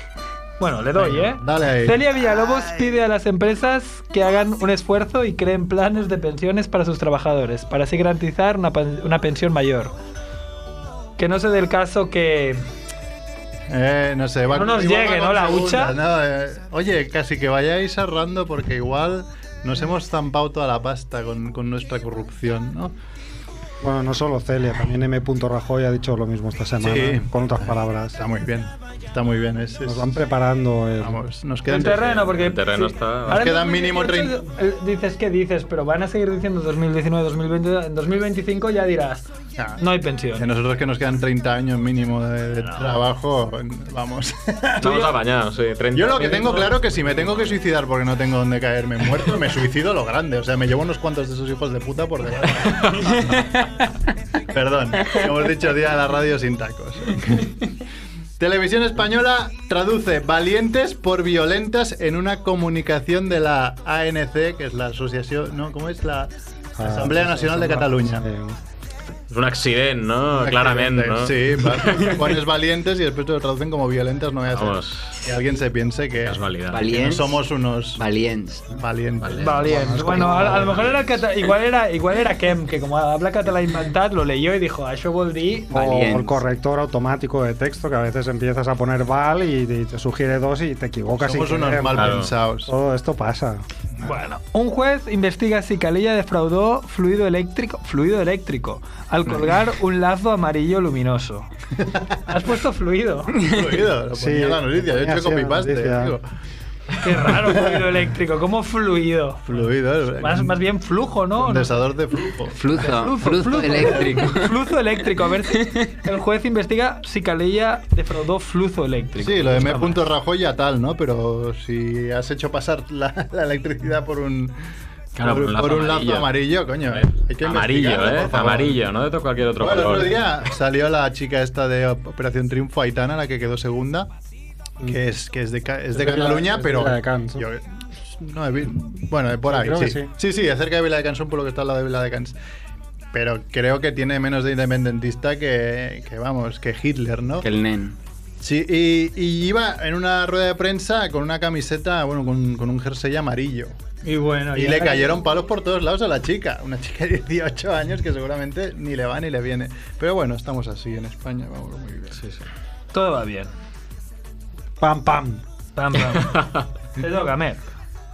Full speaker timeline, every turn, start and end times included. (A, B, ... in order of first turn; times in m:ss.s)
0:00.6-0:09.9 A
0:01.0-0:02.0 B
0:11.2-0:12.6 A
0:13.7-0:22.9 B
0:14.5-0:15.9 A
0:23.8-0:28.2 C
0:26.8-0:27.3 B
0:28.2-0:30.1 B
0:29.8-0:31.2 C
0:31.0-0:32.3 B
0:31.7-0:39.2 A
0:32.2-0:33.5 D
0:33.3-0:34.4 B
0:39.6-0:39.8 B
0:39.8-0:40.4 A
0:40.4-0:44.8 B
0:42.6-0:43.0 A
0:44.8-0:47.5 D
0:44.8-0:45.1 A
0:45.9-0:53.2 B
0:54.5-0:57.4 B
0:58.4-1:08.2 B
1:06.8-1:08.6 C
1:09.3-1:12.4 D
1:10.3-1:16.4 B
1:14.5-1:15.2 D
1:16.2-1:16.9 D
1:16.7-1:17.4 E
1:16.9-1:18.0 B
1:18.0-1:18.7 E
1:18.7-1:20.9 B
1:19.2-1:21.2 D
1:19.4-1:25.7 A
1:25.7-1:33.6 C
1:25.7-1:26.4 E
1:31.2-1:32.7 B
1:31.9-1:32.3 D
1:34.0-1:41.5 A
1:41.8-1:42.3 B
1:42.3-1:43.3 A
1:43.5-1:46.2 B
1:44.1-1:46.2 C
1:47.0-1:51.7 A
1:47.2-1:47.9 B
1:49.5-1:50.6 B
1:51.4-1:52.6 B
1:52.5-1:54.5 E
1:52.8-2:00.0 A
1:55.5-1:55.9 E
1:59.2-2:04.5 B
2:05.2-2:06.3 D
2:05.2-2:08.8 B
2:06.9-2:10.2 D
2:09.6-2:14.1 B
2:14.8-2:22.3 B
2:15.9-2:17.4 C
2:19.4-2:20.1 C
2:23.1-2:27.5 B
2:27.4-2:28.0 E
2:28.4-2:33.8 B
2:34.0-2:35.1 A
2:34.5-2:42.2 B
2:42.2-2:42.4 D
2:42.9-2:43.5 A
2:44.8-2:45.4 C
2:45.8-2:46.4 A
2:46.1-2:46.6 D
2:47.0-2:47.6 A